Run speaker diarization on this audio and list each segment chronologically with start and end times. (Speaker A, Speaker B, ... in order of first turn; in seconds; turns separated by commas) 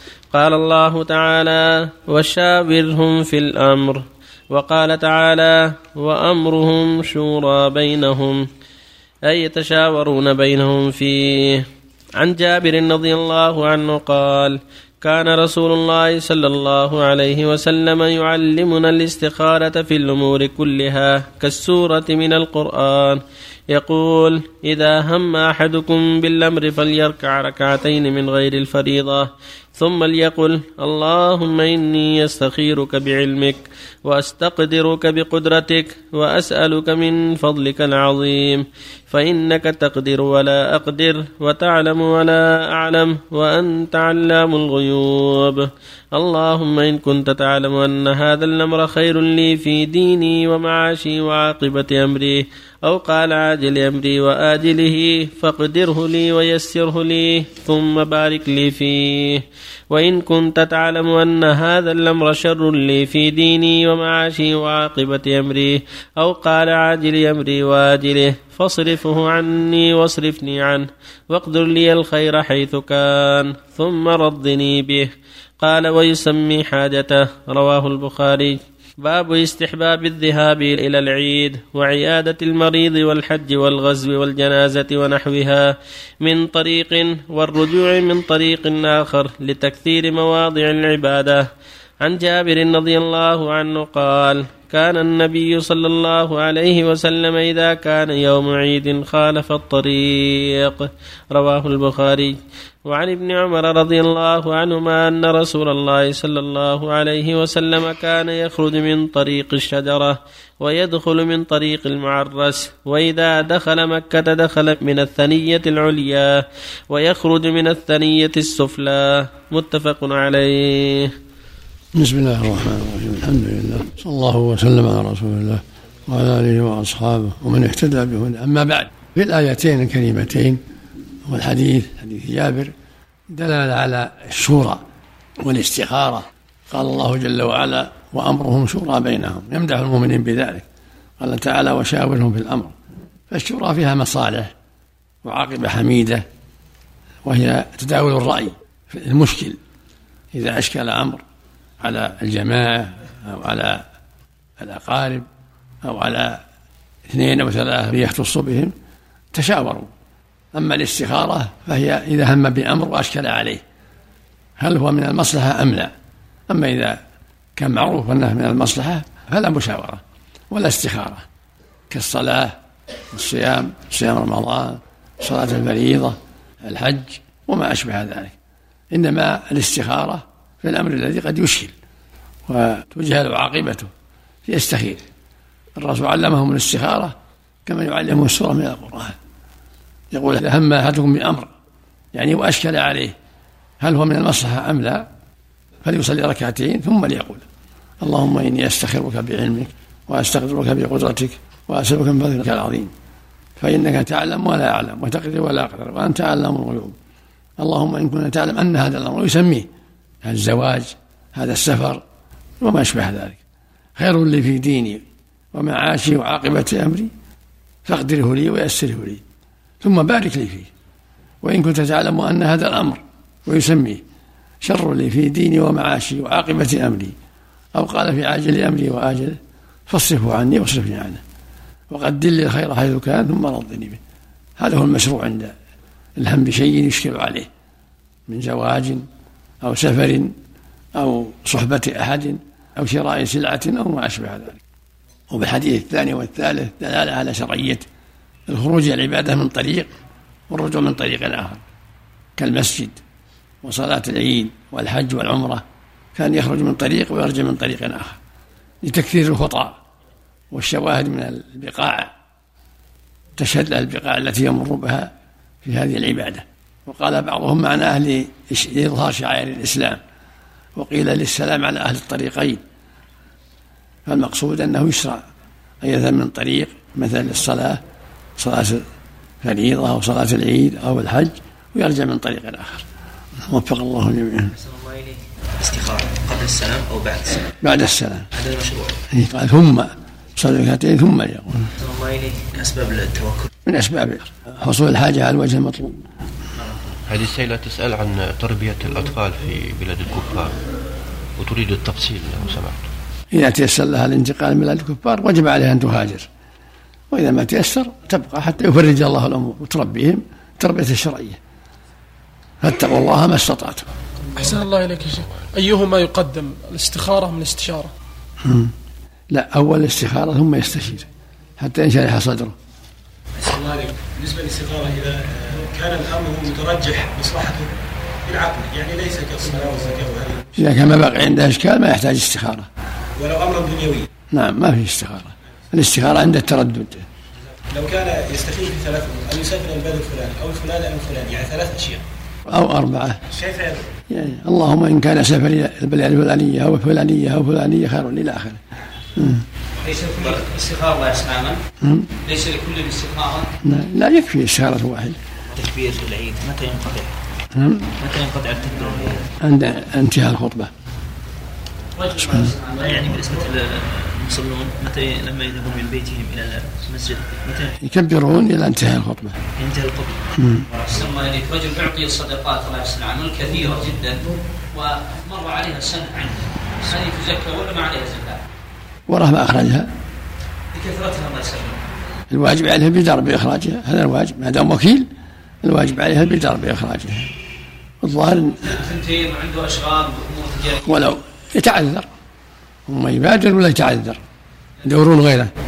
Speaker A: 0.3-8.5, Speaker A: 9.3-11.7, Speaker A: 12.2-75.1, Speaker A: 75.6-91.5, Speaker A: 92.0-121.1, Speaker B: 121.9-130.6, Speaker B: 131.3-132.7, Speaker B: 133.3-134.8, Speaker B: 135.4-140.6, Speaker B: 141.2-142.7, Speaker B: 143.3-144.5, Speaker B: 145.2-146.2, Speaker B: 147.2-149.6, Speaker B: 150.3-151.2, Speaker B: 151.8-153.8, Speaker B: 154.6-155.2, Speaker B: 155.8-156.4, Speaker B: 157.1-158.7, Speaker B: 159.3-159.9, Speaker B: 160.5-163.6, Speaker B: 164.6-165.9, Speaker B: 166.5-167.0, Speaker B: 167.6-171.2, Speaker B: 171.9-172.5, Speaker B: 173.1-178.3, Speaker B: 178.9-181.7, Speaker B: 182.5-183.9, Speaker B: 184.4-185.0, Speaker B: 185.8-187.1, Speaker B: 187.7-189.1, Speaker B: 190.1-191.5, Speaker B: 192.1-193.1, Speaker B: 193.8-195.1, Speaker B: 195.8-197.4, Speaker B: 198.0-202.9, Speaker B: 203.6-206.9, Speaker B: 207.6-209.7, Speaker B: 210.2-212.0, Speaker B: 212.6-213.4, Speaker B: 213.9-217.1, Speaker B: 217.8-219.2, Speaker B: 219.8-220.7, Speaker B: 221.4-224.0, Speaker B: 224.6-227.1, Speaker B: 227.7-231.2, Speaker B: 231.9-234.0, Speaker B: 234.6-235.5, Speaker B: 236.2-237.5, Speaker B: 238.3-239.1, Speaker B: 239.6-240.3, Speaker B: 240.9-244.6, Speaker B: 245.3-247.8, Speaker B: 248.5-249.9, Speaker B: 250.5-251.6, Speaker B: 252.4-253.0, Speaker B: 253.6-255.6, Speaker B: 256.1-258.2, Speaker B: 258.8-259.7, Speaker B: 260.5-262.1, Speaker B: 263.4-265.1, Speaker B: 265.6-270.0, Speaker B: 270.8-272.6, Speaker B: 274.1-275.2, Speaker B: 275.8-277.8, Speaker B: 278.4-278.8, Speaker B: 279.4-282.8, Speaker B: 283.5-284.5, Speaker C: 284.6-287.5, Speaker B: 287.6-288.3, Speaker C: 288.3-288.9, Speaker B: 289.1-291.7, Speaker C: 291.8-293.5, Speaker B: 293.6-296.0, Speaker D: 297.1-300.6, Speaker D: 301.4-302.9, Speaker B: 303.3-306.2, Speaker B: 307.1-311.4, Speaker B: 312.6-313.9, Speaker E: 314.4-317.9, Speaker B: 318.4-318.7, Speaker B: 319.3-322.5, Speaker F: 323.4-327.7, Speaker F: 328.2-330.7, Speaker B: 330.6-332.7, Speaker F: 333.2-334.1, Speaker B: 334.3-337.1, Speaker F: 337.7-342.0, Speaker B: 342.5-343.2, Speaker F: 343.3-343.9, Speaker B: 344.1-348.6, Speaker B: 349.1-349.4, Speaker G: 349.8-351.6, Speaker B: 351.8-352.1, Speaker G: 352.2-353.5, Speaker B: 353.6-355.2, Speaker C: 355.5-357.1, Speaker B: 357.5-357.9, Speaker C: 358.0-359.2, Speaker B: 359.4-360.7, Speaker G: 361.9-363.3, Speaker B: 362.1-362.5, Speaker C: 362.7-367.8, Speaker B: 367.8-369.4, Speaker C: 369.6-370.1, Speaker B: 370.4-370.7, Speaker G: 370.8-378.4, Speaker B: 379.1-379.9, Speaker G: 380.7-381.8, Speaker B: 382.3-385.1, Speaker B: 385.6-387.3, Speaker B: 388.0-388.7, Speaker G: 388.7-391.0, Speaker B: 390.8-392.1, Speaker B: 392.9-394.2, Speaker B: 394.8-395.5